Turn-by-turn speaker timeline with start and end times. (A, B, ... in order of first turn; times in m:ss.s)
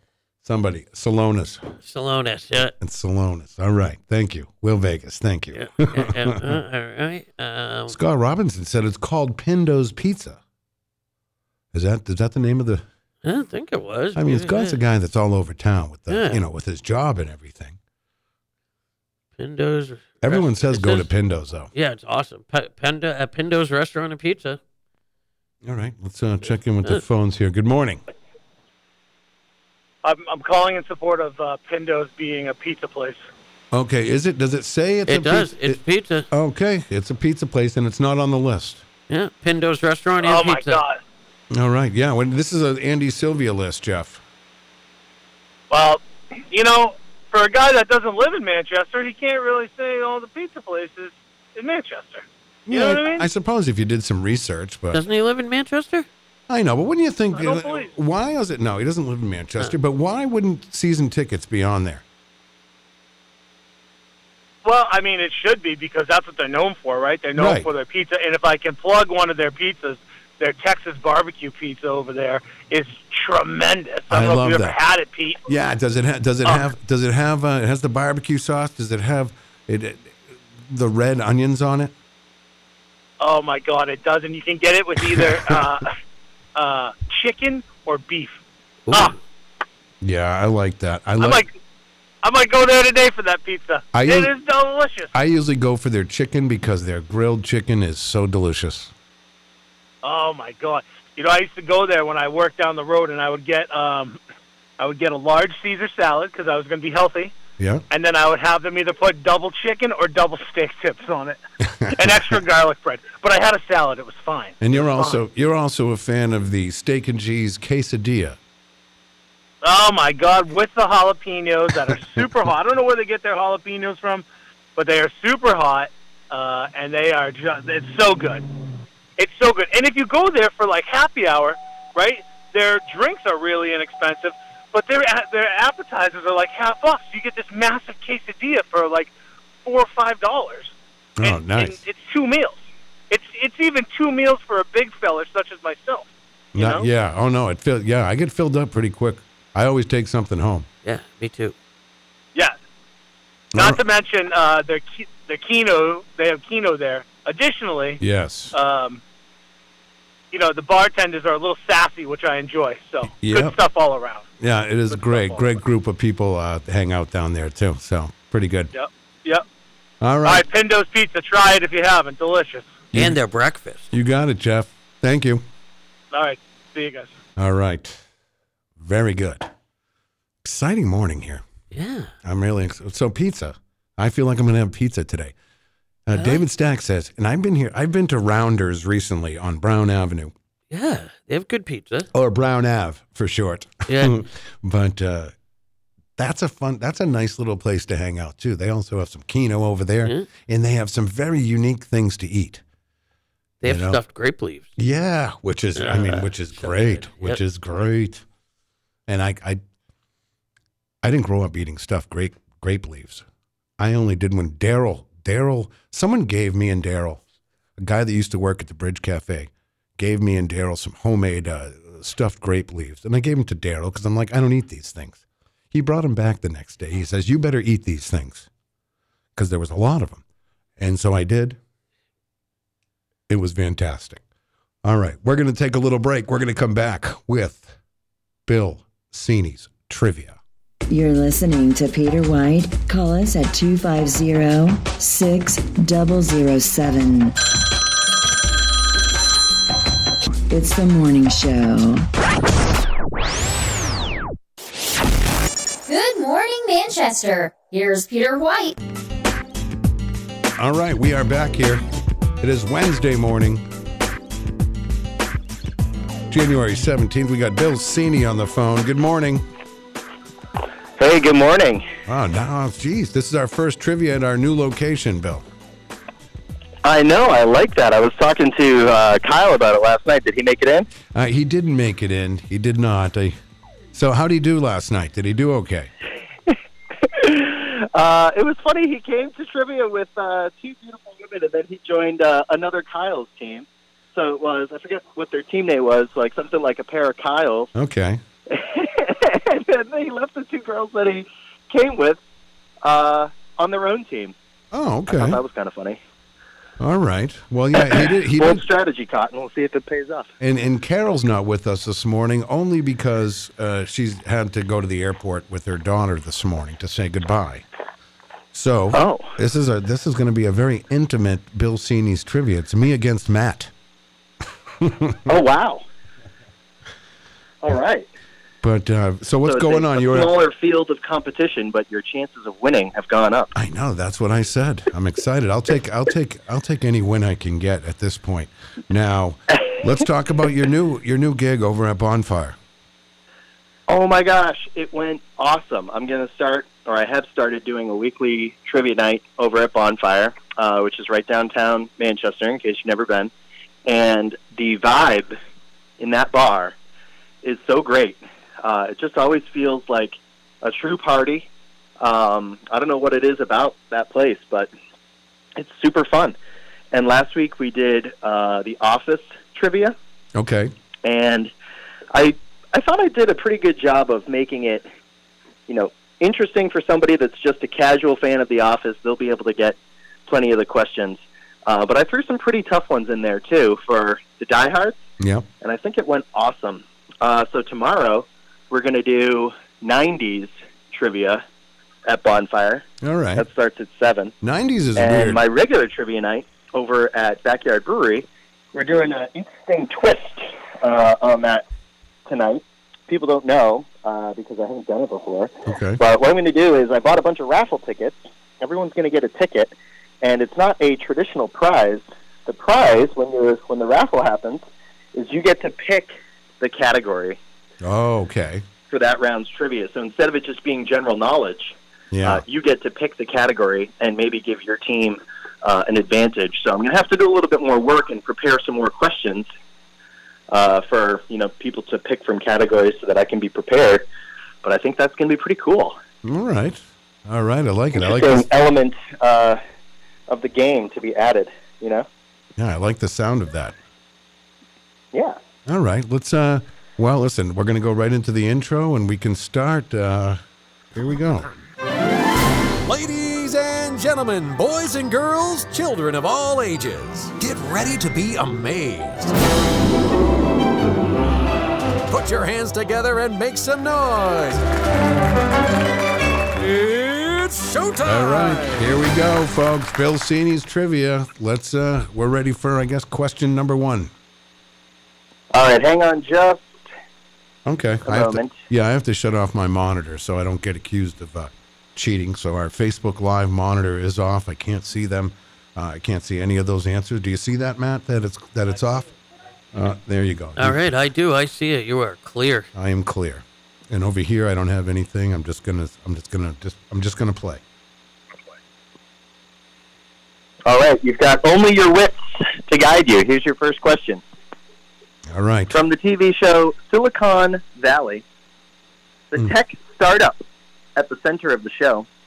0:00.4-0:01.7 A
0:01.8-0:02.7 B
0:02.8-0:06.6 A
0:05.5-0:08.0 B
0:07.9-0:10.4 A
0:11.7-0:12.8 A
0:13.2-0:14.8 B
0:14.1-0:17.8 A
0:16.1-0:16.4 B
0:19.4-0:21.1 B
0:20.2-0:21.7 A
0:21.7-0:24.6 B
0:25.6-0:28.0 A
0:30.0-0:33.2 C
0:33.7-0:38.8 A
0:35.1-0:36.3 B
0:39.1-0:40.8 B
0:40.2-0:41.0 C
0:41.5-0:44.2 A
0:45.7-0:53.3 C
0:52.7-0:55.0 A
0:54.9-0:56.1 B
0:56.5-1:02.0 A
0:57.3-0:57.9 C
1:04.6-1:15.4 C
1:07.4-1:07.7 A
1:14.1-1:14.8 A
1:15.5-1:21.9 A
1:23.2-1:25.9 C
1:25.2-1:25.6 A
1:26.5-1:28.4 C
1:28.9-1:29.1 B
1:28.9-1:29.2 C
1:30.0-1:31.4 A
1:31.2-1:31.5 C
1:32.2-1:35.1 C
1:33.9-1:34.3 A
1:35.1-1:38.9 A
1:40.0-1:44.2 C
1:44.8-1:47.3 C
1:47.6-1:47.8 A
1:47.9-1:51.4 C
1:51.7-1:52.3 A
1:51.9-1:55.2 C
1:54.6-1:58.4 A
1:59.6-2:04.2 C
2:04.8-2:08.5 C
2:09.2-2:19.1 C
2:19.6-2:26.9 C
2:21.2-2:21.8 A
2:26.5-2:30.7 A
2:30.8-2:31.5 B
2:33.5-2:33.8 A
2:33.5-2:38.0 C
2:38.0-2:38.5 A
2:38.5-2:39.0 C
2:40.3-2:44.2 C
2:43.1-2:43.6 A
2:44.4-2:48.7 A
2:44.9-2:45.5 C
2:48.7-2:49.4 C
2:50.0-2:50.4 A
2:50.2-2:52.8 C
2:52.9-2:53.9 B
2:53.9-2:55.4 A
2:56.1-2:57.2 C
2:57.4-2:58.0 A
2:58.8-2:59.5 A
3:00.4-3:01.4 A
3:01.7-3:02.1 B
3:02.2-3:05.3 A
3:06.0-3:10.3 A
3:06.1-3:06.4 B
3:10.7-3:12.1 B
3:12.1-3:15.3 A
3:13.9-3:14.2 B
3:16.2-3:22.6 A
3:23.6-3:24.7 B
3:23.6-3:24.0 A
3:24.8-3:28.2 A
3:25.8-3:27.4 B
3:29.1-3:29.6 A
3:31.0-3:33.2 A
3:33.8-3:37.2 A
3:37.8-3:48.5 A
3:49.4-3:50.2 A
3:50.8-3:51.6 A
3:53.3-3:54.2 A
3:54.8-3:57.8 A
3:58.5-4:00.4 A
4:00.9-4:07.4 D
4:10.5-4:12.1 D
4:15.9-4:18.8 E
4:20.6-4:21.8 A
4:22.4-4:23.6 A
4:26.3-4:29.5 A
4:31.0-4:31.9 F
4:32.0-4:35.4 A
4:36.8-4:40.9 F
4:41.0-4:43.4 A
4:43.9-4:45.9 A
4:47.0-4:57.7 F
4:57.7-4:58.2 A
4:58.5-5:02.2 F
5:02.8-5:04.3 F
5:04.7-5:05.4 A
5:05.1-5:06.0 F
5:06.8-5:08.6 A
5:07.8-5:10.3 F
5:10.4-5:17.6 A
5:18.5-5:23.7 A
5:18.9-5:19.4 F
5:24.8-5:25.2 A
5:25.2-5:25.8 F
5:27.6-5:28.1 F
5:28.6-5:30.3 A
5:29.4-5:33.5 F
5:33.5-5:42.6 A
5:43.9-5:53.3 F
5:53.8-5:55.3 F
5:56.0-5:56.7 F
5:57.4-6:01.5 F
6:02.0-6:04.7 F
6:05.6-6:06.4 F
6:06.9-6:10.0 F
6:10.4-6:10.7 A
6:11.0-6:11.5 F
6:12.1-6:14.9 F
6:15.7-6:25.0 F
6:25.2-6:25.5 A
6:25.6-6:31.4 F
6:32.0-6:32.8 F
6:33.0-6:33.4 A
6:33.4-6:34.3 F
6:34.4-6:35.4 A
6:35.0-6:41.6 F
6:42.2-6:54.6 F
6:45.6-6:46.0 A
6:55.1-6:57.4 F
6:57.8-6:58.6 A
6:58.9-7:09.5 F
7:02.1-7:02.4 A
7:10.5-7:14.0 F
7:14.6-7:16.0 F
7:16.2-7:18.5 A
7:18.0-7:19.6 F
7:20.3-7:22.1 F
7:22.6-7:23.8 A
7:25.1-7:25.4 F
7:25.6-7:30.4 A
7:30.9-7:31.5 A
7:32.8-7:39.4 G
7:42.1-7:44.6 G
7:46.5-7:48.9 G
7:48.0-7:54.1 A
7:55.5-7:56.8 F
7:57.6-8:09.1 A
7:58.0-7:58.6 F
8:09.7-8:10.9 A
8:10.6-8:12.7 B
8:12.7-8:17.6 A
8:20.6-8:24.2 F
8:25.3-8:25.8 A
8:25.7-8:28.2 F
8:29.3-8:30.4 F
8:31.0-8:32.1 F